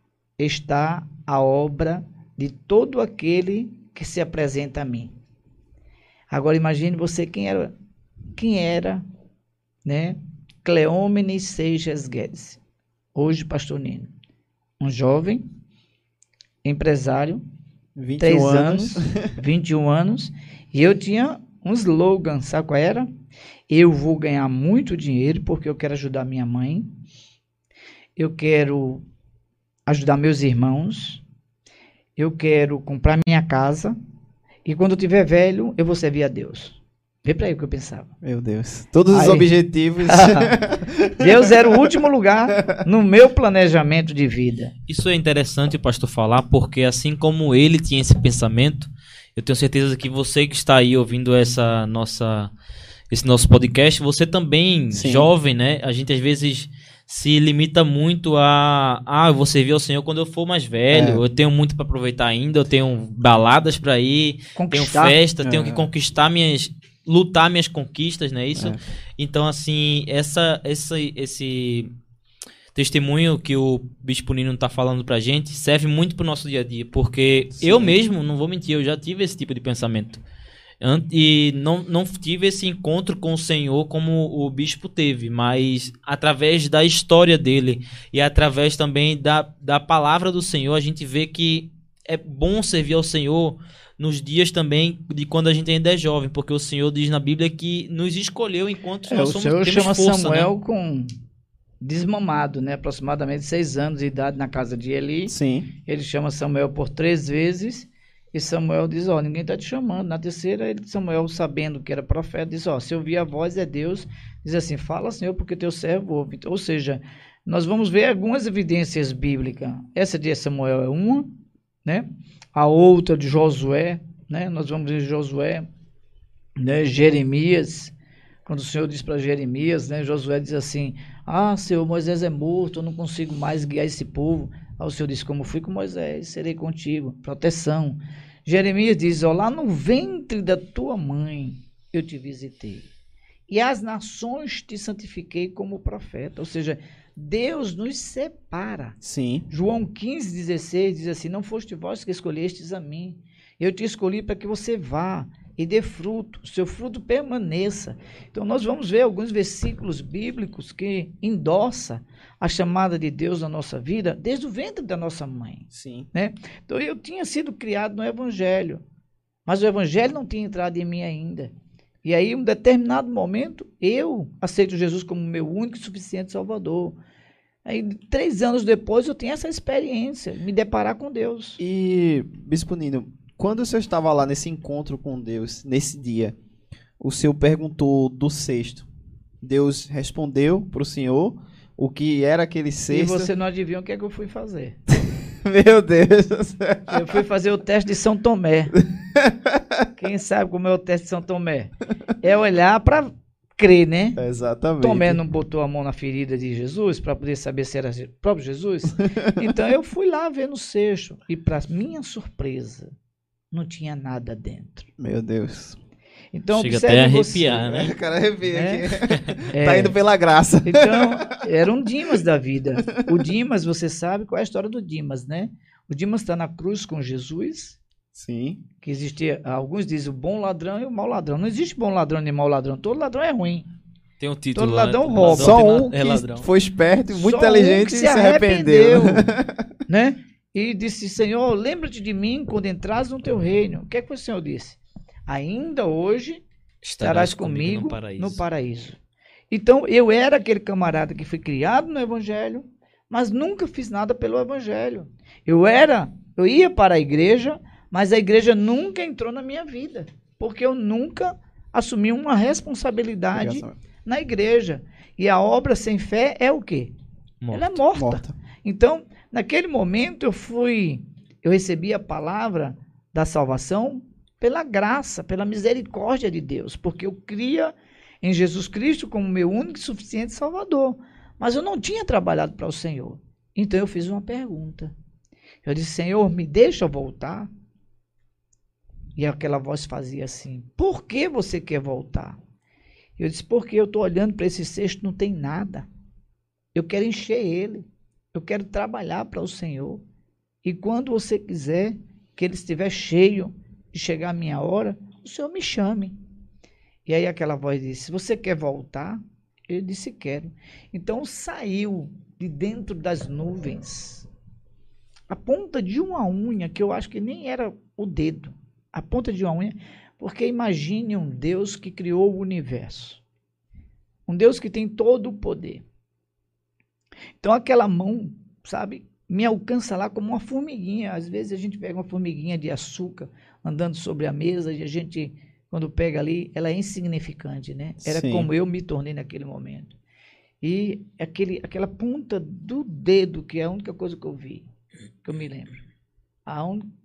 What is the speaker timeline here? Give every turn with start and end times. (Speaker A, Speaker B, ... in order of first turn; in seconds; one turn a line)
Speaker A: 0.4-5.1
Speaker A: 6.3-7.7
Speaker A: 8.3-9.0
Speaker A: 9.8-12.6
Speaker A: 13.1-14.1
Speaker A: 14.8-15.4
Speaker A: 16.6-17.4
Speaker B: 17.9-19.3
Speaker A: 18.2-23.1
Speaker A: 23.7-26.9
Speaker A: 28.2-29.0
Speaker A: 29.9-31.2
Speaker A: 32.2-34.0
Speaker A: 34.6-38.1
Speaker B: 38.2-41.8
Speaker A: 39.1-39.5
Speaker A: 40.0-40.5
Speaker A: 41.2-44.7
Speaker C: 44.9-52.5
Speaker C: 53.1-71.9
Speaker B: 54.9-55.3
Speaker B: 60.9-61.2
Speaker A: 64.6-65.2
Speaker B: 65.4-65.9
Speaker B: 68.5-68.8
Speaker C: 72.7-80.2
Speaker B: 77.6-78.0
Speaker C: 80.8-100.5
Speaker A: 99.1-101.1
Speaker A: 101.8-105.3
Speaker B: 105.3-105.7
Speaker A: 105.8-121.3
Speaker A: 121.8-125.7
Speaker A: 126.6-127.9
Speaker A: 128.4-142.9
Speaker A: 143.5-149.0
Speaker B: 149.0-149.4
Speaker A: 149.5-168.8
Speaker B: 165.7-166.1
Speaker A: 169.4-171.5
Speaker A: 172.0-177.0
Speaker A: 177.6-181.6
Speaker B: 181.6-186.4
Speaker B: 187.0-188.9
Speaker B: 189.4-193.3
Speaker A: 192.9-194.8
Speaker B: 194.9-197.2
Speaker A: 196.9-198.7
Speaker B: 198.8-199.8
Speaker A: 199.9-204.2
Speaker B: 204.2-205.2
Speaker A: 204.8-212.9
Speaker B: 209.0-209.5
Speaker A: 213.5-214.9
Speaker B: 215.0-215.8
Speaker A: 216.3-217.7
Speaker C: 216.5-217.9
Speaker B: 217.6-221.2
Speaker A: 218.5-218.9
Speaker A: 219.5-220.0
Speaker A: 220.6-227.8
Speaker B: 222.9-223.3
Speaker B: 228.1-228.6
Speaker A: 228.8-233.7
Speaker C: 234.2-236.5
Speaker A: 234.5-235.9
Speaker B: 235.2-239.7
Speaker A: 237.1-239.3
Speaker A: 239.9-246.4
Speaker C: 246.8-248.4
Speaker A: 247.0-249.0
Speaker A: 249.5-266.9
Speaker B: 263.4-263.7
Speaker C: 267.4-267.8
Speaker A: 267.5-284.9
Speaker B: 267.9-268.3
Speaker A: 285.6-287.5
Speaker A: 289.1-292.4
Speaker A: 293.2-295.9
Speaker A: 296.7-300.0
Speaker A: 300.6-306.2
Speaker A: 307.1-314.3
Speaker A: 315.3-323.2
Speaker A: 324.3-325.9
Speaker A: 327.4-339.9
Speaker B: 338.0-338.5
Speaker A: 340.6-344.7
Speaker A: 345.2-345.8
Speaker A: 346.4-346.9